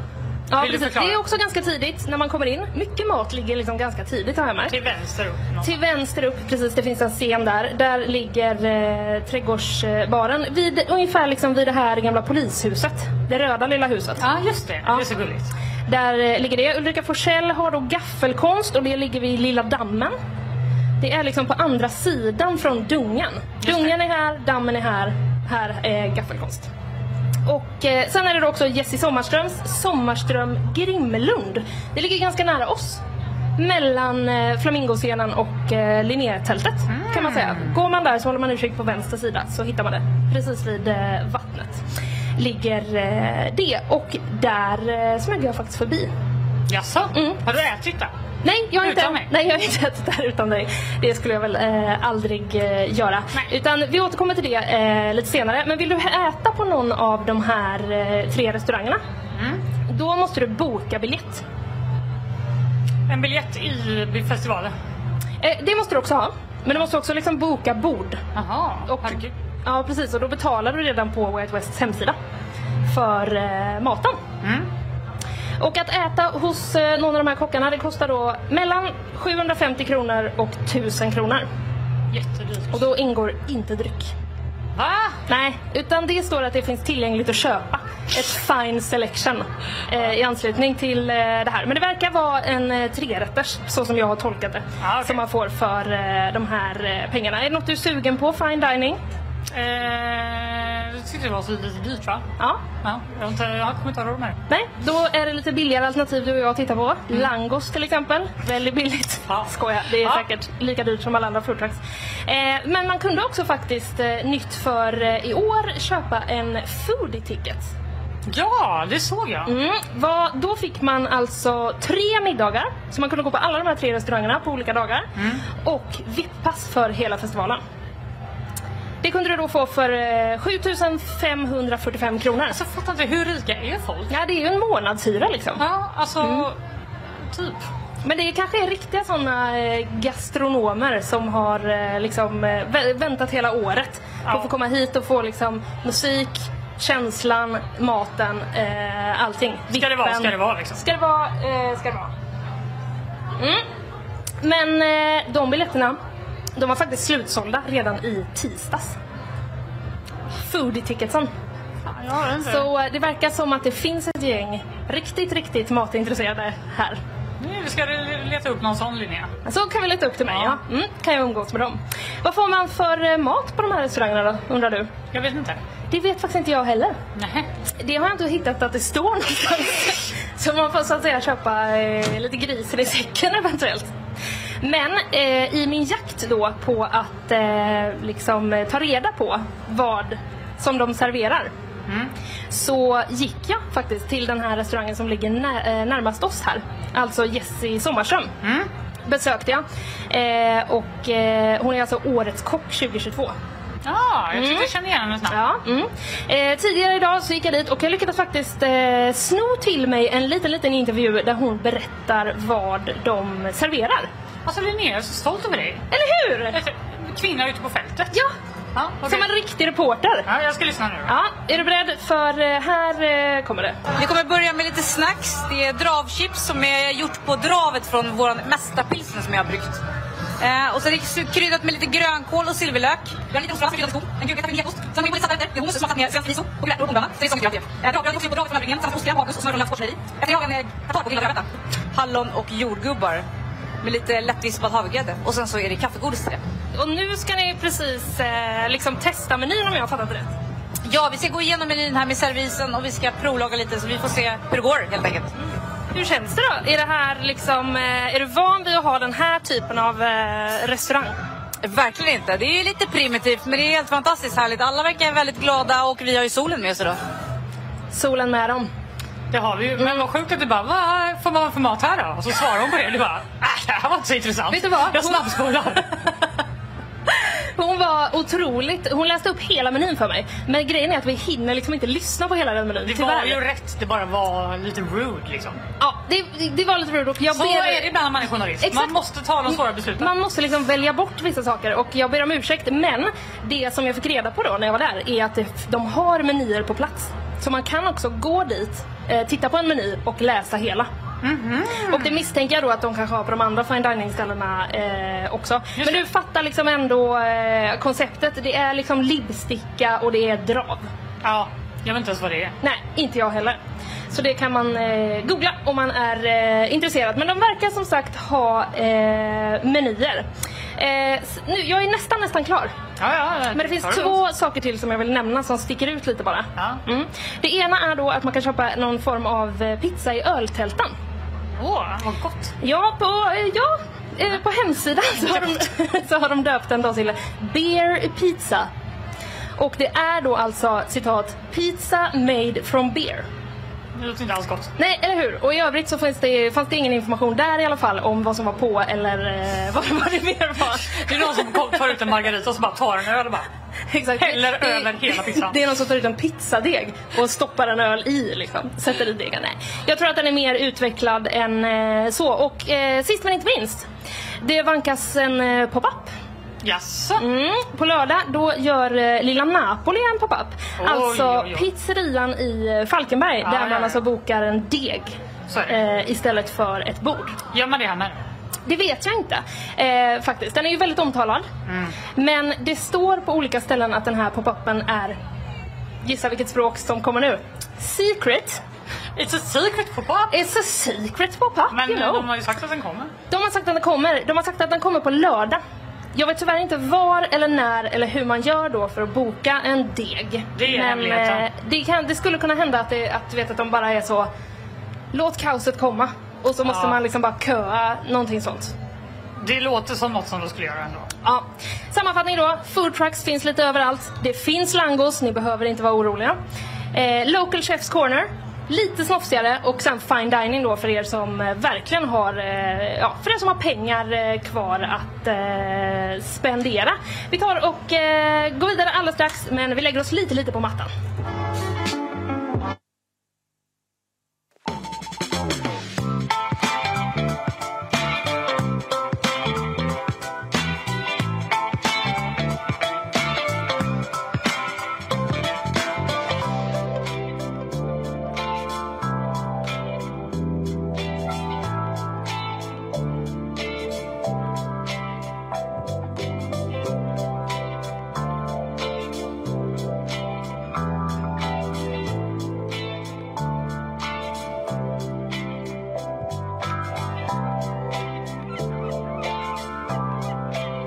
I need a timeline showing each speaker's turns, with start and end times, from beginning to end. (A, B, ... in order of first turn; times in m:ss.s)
0:00.5-0:04.8 A
0:00.6-0:01.2 B
0:04.7-0:05.7 B
0:05.6-0:14.2 A
0:14.2-0:15.5 B
0:15.9-0:20.2 A
0:21.0-0:26.7 A
0:23.6-0:23.9 B
0:27.5-0:33.0 A
0:33.6-0:41.8 A
0:36.9-0:37.7 B
0:42.4-0:46.1 A
0:46.7-0:48.1 B
0:47.1-0:47.4 A
0:48.4-0:59.0 A
0:48.8-0:49.3 B
0:59.4-0:59.6 B
0:59.9-1:01.4 A
1:03.1-1:04.7 B
1:05.4-1:08.2 A
1:08.4-1:09.3 B
1:08.9-1:12.2 A
1:12.9-1:14.2 A
1:14.4-1:14.7 B
1:15.6-1:21.5 A
1:22.1-1:22.8 B
1:22.7-1:24.1 A
1:24.8-1:25.2 B
1:25.3-1:39.0 A
1:34.8-1:35.2 B
1:39.5-1:42.2 B
1:42.8-1:44.4 B
1:44.5-1:57.7 A
1:58.3-1:59.5 B
1:59.5-2:07.6 A
2:05.2-2:05.4 B
2:09.0-2:12.6 A
2:12.5-2:14.1 B
2:14.1-2:15.6 A
2:15.6-2:16.6 B
2:16.2-2:16.5 A
2:17.3-2:17.6 B
2:18.0-2:32.1 A
2:29.7-2:30.8 B
2:33.4-2:33.6 A
2:34.4-2:36.0 A
2:36.6-2:39.0 A
2:40.4-2:41.3 A
2:41.8-2:42.7 B
2:42.4-2:47.0 A
2:47.4-2:49.3 B
2:49.5-2:54.9 A
2:50.3-2:50.6 B
2:55.1-2:55.6 B
2:55.9-2:57.0 A
2:57.2-2:57.5 B
2:57.8-3:03.9 A
3:04.6-3:11.5 A
3:12.5-3:18.3 A
3:18.4-3:18.7 B
3:19.1-3:23.4 A
3:23.8-3:25.4 B
3:24.3-3:24.7 A
3:25.3-3:34.1 A
3:34.5-3:35.9 B
3:35.9-3:36.6 A
3:36.5-3:38.1 B
3:38.8-3:39.3 B
3:39.0-3:40.3 A
3:40.3-3:41.1 B
3:41.1-3:43.8 A
3:44.0-3:49.8 C
3:50.4-4:03.2 C
4:03.8-4:06.4 C
4:06.8-4:10.3 A
4:10.9-4:15.3 C
4:15.9-4:21.1 A
4:21.6-4:27.0 C
4:27.9-4:28.7 A
4:29.3-4:36.0 B
4:34.5-4:35.2 A
4:37.1-4:43.4 A
4:42.8-4:45.6 B
4:45.8-4:47.9 A
4:47.3-4:50.1 B
4:48.6-4:49.0 A
4:49.5-5:00.9 A
5:01.2-5:02.3 B
5:01.9-5:10.9 A
5:05.8-5:06.0 B
5:11.2-5:12.6 B
5:12.6-5:13.6 A
5:14.1-5:22.7 A
5:23.0-5:24.2 B
5:23.5-5:31.0 A
5:31.6-5:32.5 B
5:32.6-5:38.7 A
5:35.2-5:35.5 B
5:39.6-5:43.3 A
5:44.0-5:44.7 B
5:44.8-5:51.6 A
5:50.8-5:53.5 B
5:53.9-6:03.9 A
5:54.2-5:55.6 B
6:04.4-6:06.1 A
6:06.6-6:07.2 B
6:07.2-6:15.2 A
6:10.8-6:11.7 B
6:13.4-6:14.0 B
6:15.5-6:15.8 B
6:15.7-6:17.4 A
6:17.5-6:18.2 B
6:18.7-6:21.5 A
6:21.7-6:22.0 B
6:22.1-6:25.2 A
6:26.0-6:28.6 A
6:29.2-6:30.4 B
6:30.3-6:32.3 A
6:31.7-6:33.1 B
6:33.3-6:35.6 A
6:36.1-6:44.3 A
6:40.6-6:41.5 B
6:45.1-6:48.7 A
6:46.6-6:47.0 B
6:49.4-6:51.1 B
6:51.2-6:56.4 A
6:56.9-7:10.9 A